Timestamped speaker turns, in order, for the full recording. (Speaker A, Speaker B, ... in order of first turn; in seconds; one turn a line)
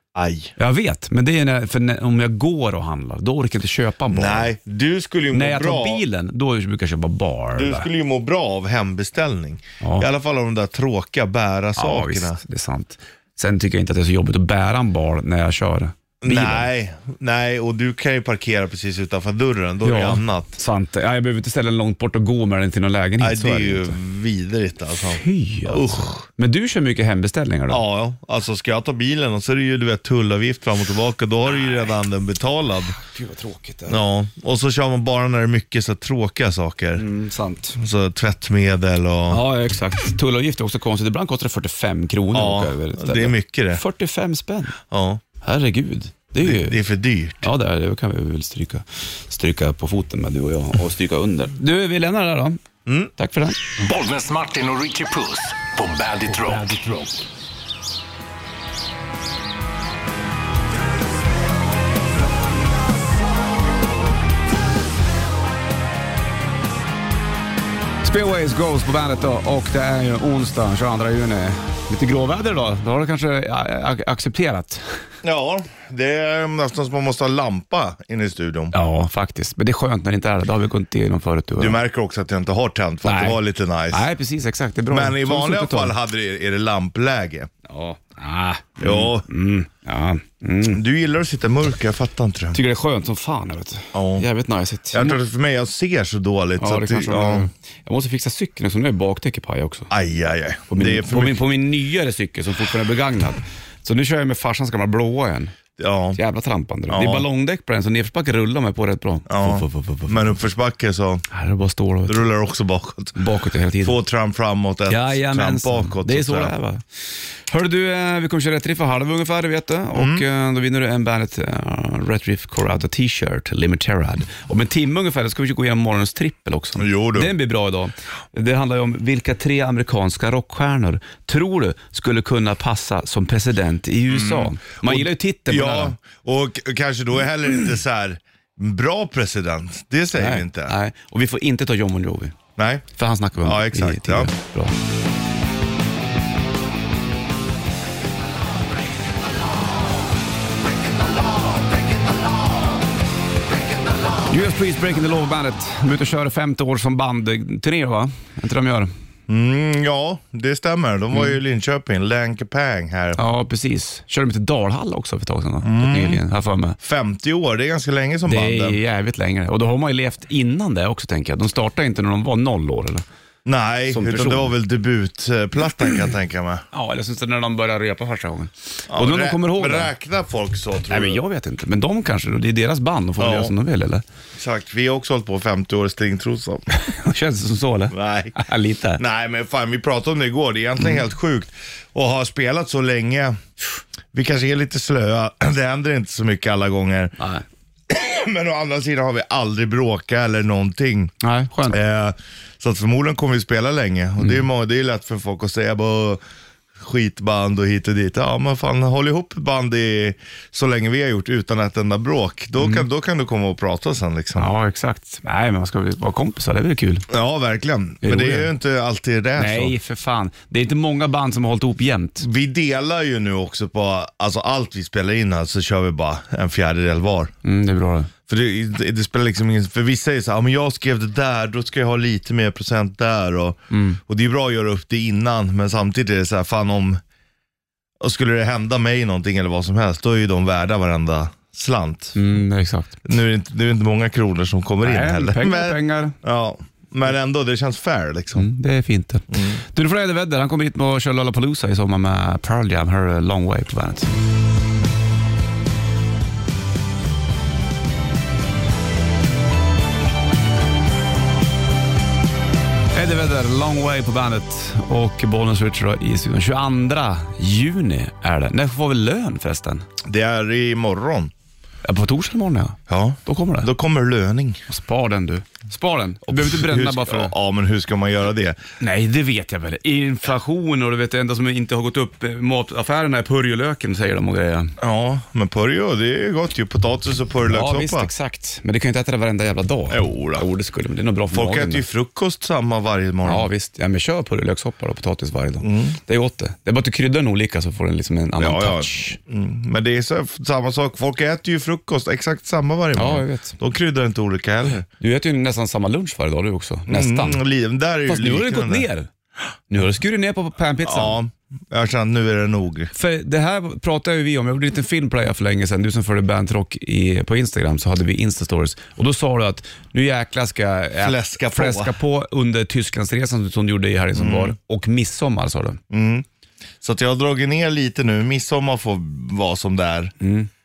Speaker A: 0.1-0.5
Speaker B: 0.6-4.5
Speaker A: 4.1-6.0
Speaker B: 5.3-7.9
Speaker A: 7.5-12.4
Speaker B: 9.8-10.1
Speaker B: 11.8-16.7
Speaker A: 16.2-20.5
Speaker B: 19.8-24.0
Speaker A: 23.2-26.3
Speaker B: 25.1-27.8
Speaker A: 27.7-33.0
Speaker B: 33.0-34.0
Speaker A: 33.9-37.0
Speaker B: 37.0-37.8
Speaker A: 37.8-39.4
Speaker B: 39.3-44.8
Speaker A: 42.3-43.8
Speaker A: 44.9-45.2
Speaker B: 45.4-46.8
Speaker A: 46.4-47.5
Speaker B: 47.4-52.6
Speaker A: 52.9-53.1
Speaker B: 53.2-53.6
Speaker C: 53.8-57.2
Speaker B: 68.0-75.0
Speaker A: 75.2-78.7
Speaker B: 78.7-81.8
Speaker A: 81.6-84.0
Speaker B: 83.0-83.4
Speaker B: 83.9-86.0
Speaker A: 84.9-87.5
Speaker B: 87.7-90.8
Speaker A: 88.8-89.3
Speaker A: 90.7-92.6
Speaker B: 92.5-95.2
Speaker A: 93.9-94.3
Speaker A: 94.9-97.5
Speaker B: 96.6-99.9
Speaker A: 99.9-101.5
Speaker B: 100.7-105.5
Speaker A: 105.8-106.2
Speaker B: 106.2-110.4
Speaker A: 106.9-107.3
Speaker A: 109.3-111.2
Speaker B: 111.3-112.3
Speaker A: 112.1-113.2
Speaker B: 113.2-114.0
Speaker A: 113.8-116.5
Speaker B: 114.9-116.8
Speaker B: 117.5-135.9
Speaker A: 119.9-120.2
Speaker A: 126.8-127.3
Speaker A: 134.1-140.8
Speaker B: 140.2-142.4
Speaker A: 142.6-142.9
Speaker B: 143.0-144.8
Speaker A: 143.4-144.3
Speaker B: 154.3-158.9
Speaker A: 159.3-163.2
Speaker B: 163.2-166.8
Speaker A: 165.6-166.2
Speaker A: 166.8-168.8
Speaker B: 168.3-173.0
Speaker A: 173.4-176.6
Speaker B: 173.9-174.6
Speaker B: 176.7-179.9
Speaker A: 178.9-181.2
Speaker B: 180.9-184.0
Speaker A: 183.2-183.5
Speaker A: 184.4-186.7
Speaker B: 186.8-189.0
Speaker A: 187.9-188.4
Speaker A: 189.0-193.4
Speaker A: 194.1-197.1
Speaker B: 197.2-197.4
Speaker A: 197.9-201.1
Speaker B: 201.2-201.8
Speaker A: 201.7-206.2
Speaker B: 204.2-204.4
Speaker A: 206.8-214.5
Speaker B: 212.6-212.9
Speaker B: 214.4-217.1
Speaker A: 217.1-219.8
Speaker B: 218.0-218.5
Speaker B: 219.4-222.3
Speaker A: 222.2-227.3
Speaker B: 227.4-228.1
Speaker A: 228.3-237.0
Speaker B: 233.7-234.0
Speaker A: 238.0-242.2
Speaker B: 242.2-243.0
Speaker A: 243.1-248.5
Speaker B: 244.8-246.2
Speaker B: 248.3-254.2
Speaker A: 249.3-249.6
Speaker B: 262.9-269.9
Speaker A: 270.1-271.3
Speaker B: 271.9-273.7
Speaker A: 272.9-274.6
Speaker B: 274.7-277.3
Speaker A: 276.3-278.6
Speaker B: 278.8-284.8
Speaker A: 284.8-288.1
Speaker B: 287.5-291.9
Speaker A: 289.9-290.5
Speaker A: 291.3-293.5
Speaker B: 293.2-299.2
Speaker A: 295.6-296.0
Speaker A: 298.4-304.9
Speaker B: 303.0-303.6
Speaker B: 305.0-307.4
Speaker A: 306.9-308.9
Speaker B: 308.1-309.1
Speaker B: 309.7-311.2
Speaker A: 310.8-312.9
Speaker B: 312.9-325.8
Speaker A: 321.0-321.9
Speaker A: 324.1-324.6
Speaker A: 325.9-326.3
Speaker A: 326.8-330.1
Speaker B: 330.2-330.5